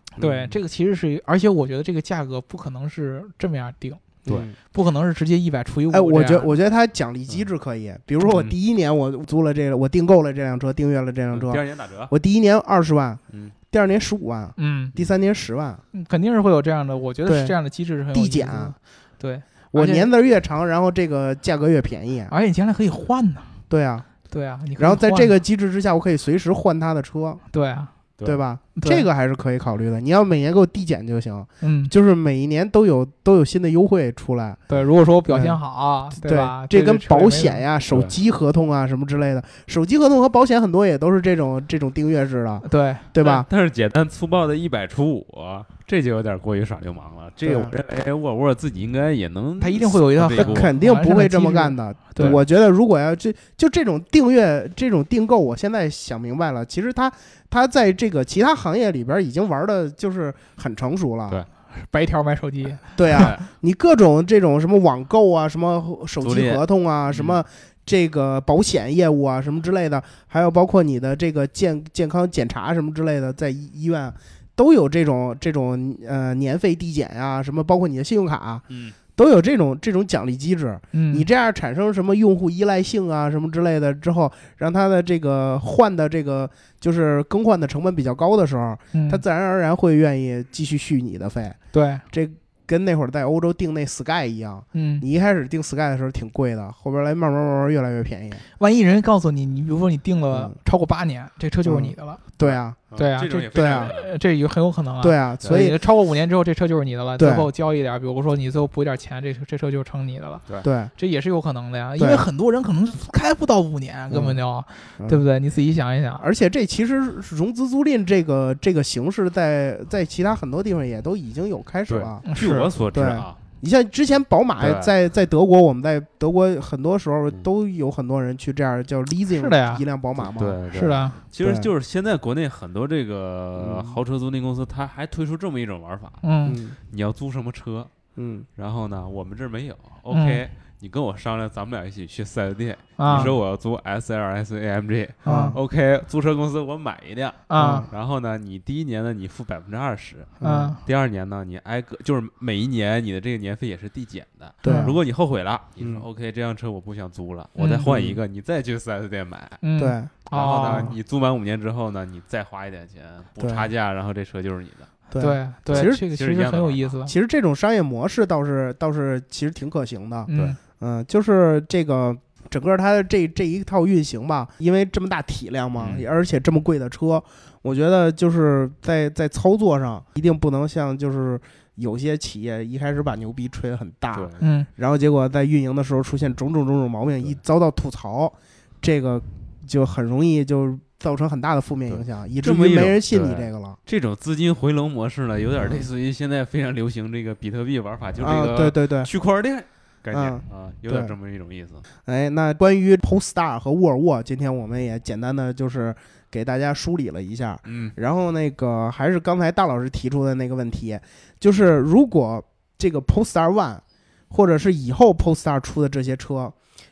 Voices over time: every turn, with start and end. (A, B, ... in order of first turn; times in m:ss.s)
0:00.2-0:04.2 A
0:00.2-0:00.6 B
0:04.2-0:04.6 C
0:04.7-0:06.5 A
0:05.9-0:15.8 C
0:08.2-0:08.5 B
0:11.3-0:12.1 B
0:14.6-0:14.9 A
0:15.9-0:20.1 A
0:17.2-0:17.6 C
0:18.1-0:18.8 C
0:19.7-0:22.3 C
0:22.3-0:23.5 A
0:23.7-0:24.2 C
0:24.3-0:25.3 A
0:24.8-0:27.4 C
0:27.5-0:27.9 A
0:28.2-0:34.6 C
0:28.8-0:29.0 A
0:31.6-0:31.9 A
0:34.7-0:37.6 A
0:35.3-0:35.6 C
0:36.2-0:43.5 C
0:42.6-0:43.1 A
0:43.2-0:50.7 B
0:47.4-0:47.7 C
0:49.6-0:52.4 A
0:50.4-1:01.4 C
1:01.7-1:03.3 A
1:03.0-1:31.6 C
1:03.1-1:03.4 B
1:06.2-1:07.4 B
1:18.7-1:19.0 B
1:20.9-1:21.3 A
1:28.9-1:29.2 A
1:31.7-1:32.0 A
1:32.1-1:38.4 C
1:34.7-1:35.0 A
1:38.6-1:42.2 A
1:40.3-1:40.6 C
1:41.7-1:42.9 C
1:42.4-1:44.1 B
1:43.0-1:56.2 A
1:43.5-1:43.9 C
1:45.0-1:45.8 C
1:47.2-1:47.5 C
1:50.6-1:50.9 C
1:52.0-1:52.2 C
1:54.1-1:54.4 C
1:56.2-2:02.3 C
2:01.9-2:03.4 B
2:02.2-2:02.7 A
2:02.9-2:10.6 C
2:04.6-2:04.9 B
2:09.3-2:09.8 A
2:10.2-2:17.9 B
2:10.7-2:11.2 A
2:11.4-2:11.7 C
2:13.6-2:14.0 C
2:16.2-2:16.6 A
2:16.5-2:16.8 C
2:18.2-2:18.5 C
2:18.6-2:39.6 B
2:20.1-2:20.4 A
2:23.0-2:23.3 A
2:23.1-2:23.4 C
2:25.2-2:25.6 A
2:25.3-2:25.6 C
2:27.5-2:27.9 A
2:27.6-2:27.9 C
2:30.4-2:30.8 C
2:30.4-2:30.8 A
2:34.6-2:35.0 C
2:34.6-2:34.9 A
2:35.8-2:36.0 C
2:37.6-2:37.9 A
2:37.9-2:38.2 C
2:39.6-2:40.9 A
2:39.8-2:40.9 C
2:40.3-2:45.0 B
2:43.4-2:43.7 C
2:45.1-2:46.0 C
2:45.2-2:47.1 A
2:45.7-2:47.0 B
2:47.1-3:13.8 C
2:50.3-2:50.6 A
2:55.8-2:56.1 B
3:04.1-3:04.4 B
3:04.4-3:04.7 A
3:11.9-3:21.8 B
3:15.6-3:15.9 C
3:18.2-3:19.1 C
3:20.1-3:21.1 C
3:22.0-3:36.6 C
3:27.7-3:27.9 B